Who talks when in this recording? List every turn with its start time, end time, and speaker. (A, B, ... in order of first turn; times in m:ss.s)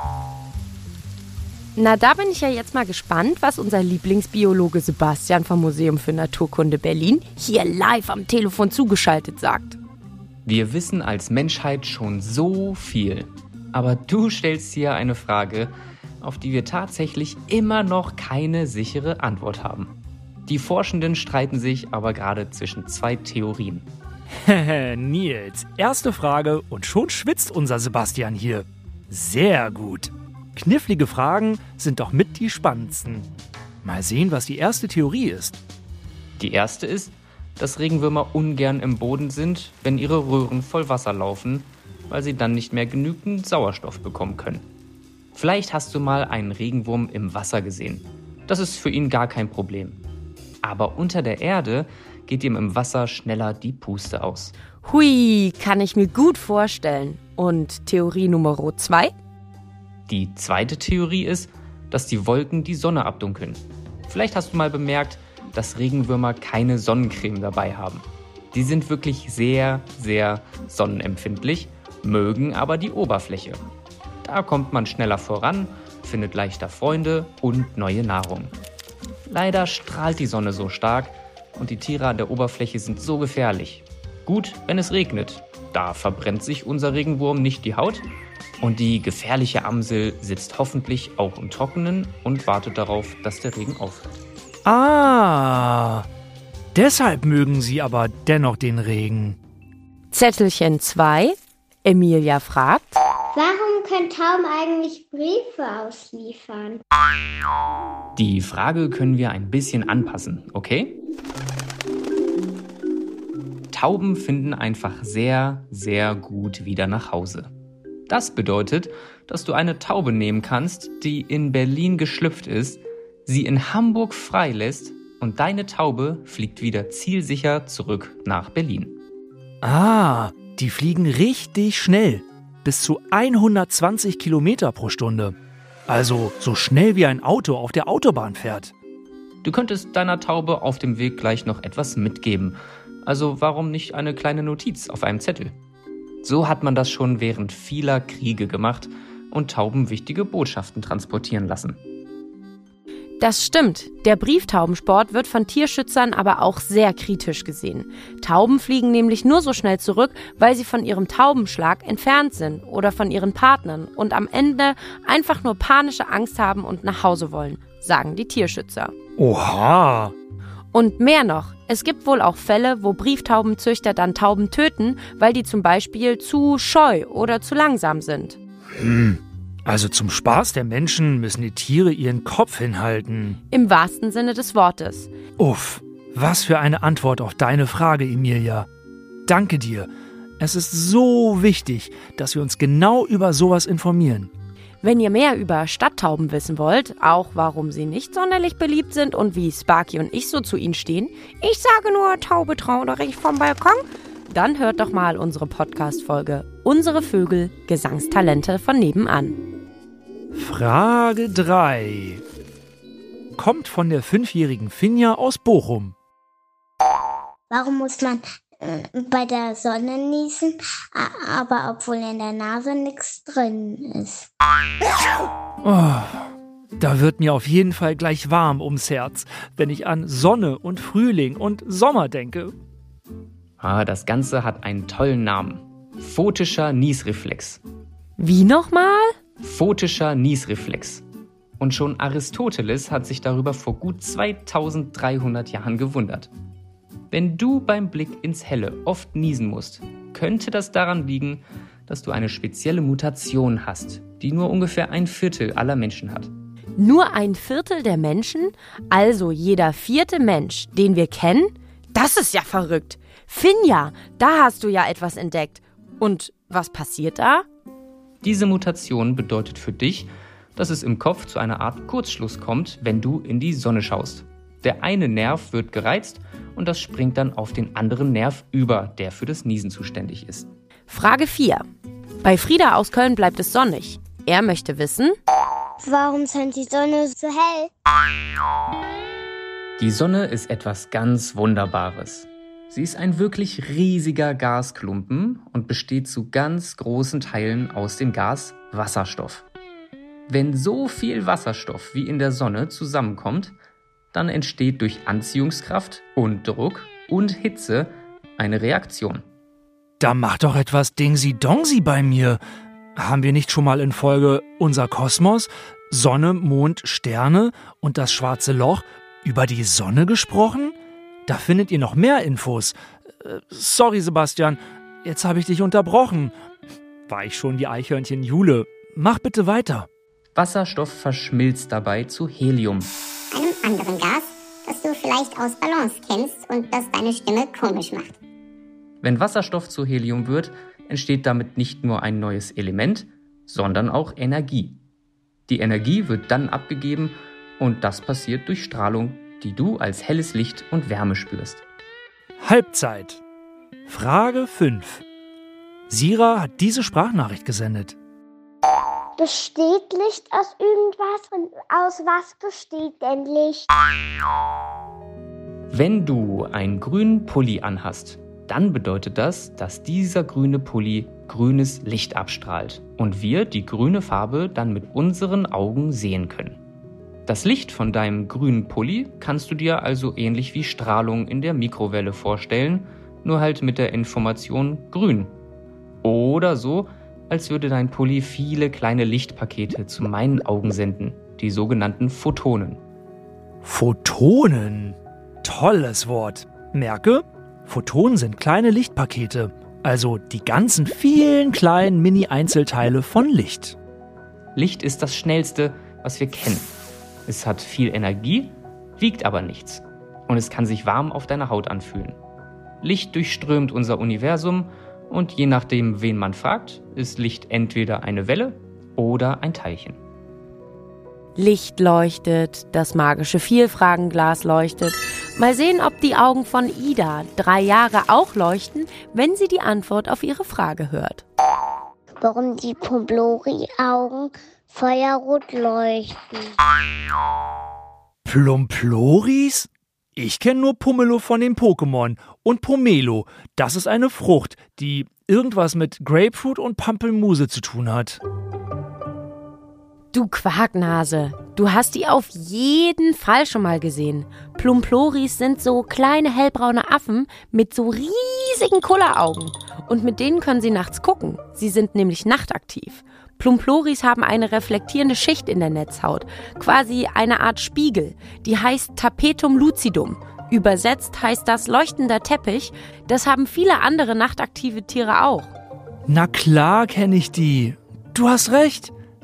0:01.8-0:09.8 A
0:10.5-0:19.9 B
0:20.5-0:23.9 B
0:24.3-0:33.3 C
0:33.8-0:35.6 C
0:36.4-0:44.7 B
0:45.3-0:50.0 B
0:50.6-0:54.5 B
0:54.8-0:59.1 A
1:00.1-1:13.6 B
1:14.2-1:18.6 B
1:19.3-1:28.1 B
1:28.6-1:34.1 B
1:34.7-1:36.1 C
1:36.8-1:39.4 C
1:40.1-1:43.0 A
1:43.3-1:46.8 D
1:48.2-1:51.0 B
1:53.7-1:57.5 B
1:58.1-2:09.0 B
2:09.6-2:15.4 C
2:15.9-2:18.7 C
2:19.4-2:25.6 B
2:26.2-2:31.8 B
2:33.2-2:48.9 A
2:49.2-2:50.1 C
2:50.7-2:58.4 A
2:58.8-3:03.4 C
3:03.5-3:05.1 A
3:05.4-3:08.7 C
3:09.3-3:09.9 C
3:10.4-3:14.3 C
3:14.8-3:29.4 A
3:30.3-3:32.2 C
3:33.4-3:35.9 C
3:37.5-3:44.3 D
3:45.6-3:52.5 C
3:53.6-3:57.6 B
3:58.2-3:59.2 A
3:59.4-4:01.0 B
4:01.6-4:06.3 B
4:07.1-4:16.3 B
4:16.8-4:27.4 A
4:28.2-4:40.5 B
4:40.9-4:41.6 A
4:42.2-4:45.2 A
4:45.8-4:47.7 D
4:49.8-4:59.4 B
5:00.3-5:03.5 B
5:04.1-5:09.2 B
5:10.0-5:12.4 C
5:13.0-5:26.3 C
5:27.1-5:29.9 C
5:30.4-5:32.9 B
5:33.3-5:38.1 E
5:39.0-5:44.8 B
5:45.5-5:51.6 B
5:52.4-5:53.2 C
5:53.9-5:55.0 C
5:55.9-5:58.0 C
5:59.2-6:03.7 D
6:05.7-6:16.6 B
6:17.3-6:25.4 B
6:26.0-6:32.8 B
6:33.6-6:43.8 C
6:44.6-6:46.7 B
6:47.3-6:52.2 B
6:52.8-7:00.0 B
7:01.4-7:11.2 A
7:12.2-7:16.6 D
7:18.2-7:28.2 C
7:30.1-7:55.5 A
7:56.1-7:58.9 C